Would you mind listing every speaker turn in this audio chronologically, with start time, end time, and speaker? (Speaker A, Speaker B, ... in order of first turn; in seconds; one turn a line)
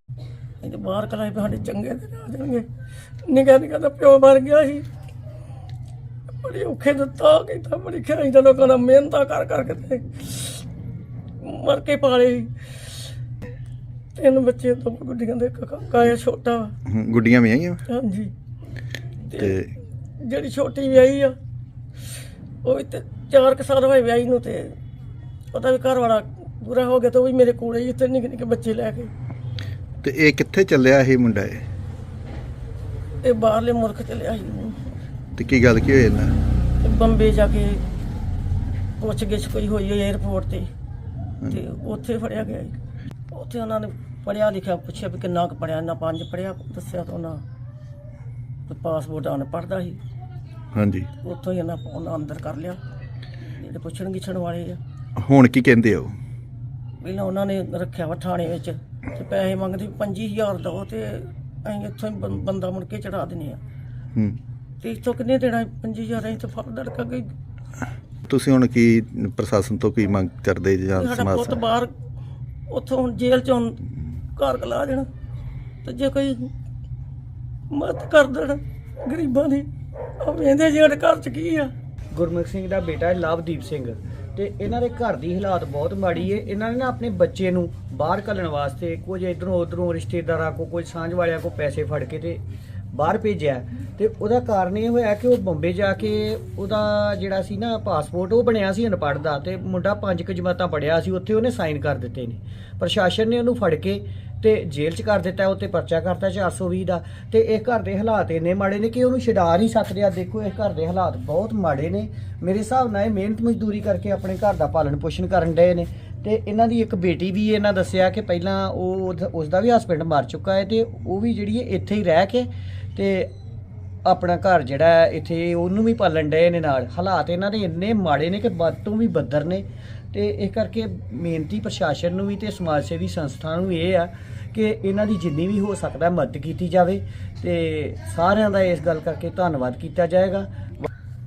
Speaker A: 0.6-2.7
Speaker A: 3.3-4.8
Speaker A: 6.4-10.6
Speaker A: 11.4-12.5
Speaker A: 14.2-16.7
Speaker B: 16.9-17.8
Speaker A: 17.9-18.3
Speaker A: 19.3-19.6
Speaker B: 19.4-19.7
Speaker A: 20.2-21.4
Speaker A: 22.6-24.8
Speaker A: 25.5-29.1
Speaker B: 30.0-31.6
Speaker A: 33.2-34.8
Speaker B: 35.4-36.3
Speaker A: 36.8-37.8
Speaker A: 39.0-40.7
Speaker A: 41.5-42.8
Speaker A: 43.3-47.4
Speaker A: 48.7-50.0
Speaker B: 50.7-51.1
Speaker A: 51.2-52.8
Speaker A: 53.6-54.8
Speaker B: 55.2-56.1
Speaker A: 57.0-63.6
Speaker A: 64.8-67.3
Speaker B: 68.3-71.6
Speaker A: 71.0-71.9
Speaker A: 72.7-73.8
Speaker A: 74.3-75.1
Speaker A: 75.8-76.5
Speaker A: 77.7-79.7
Speaker A: 80.2-81.7
Speaker C: 82.1-92.4
Speaker C: 92.9-123.3
Speaker C: 124.0-140.8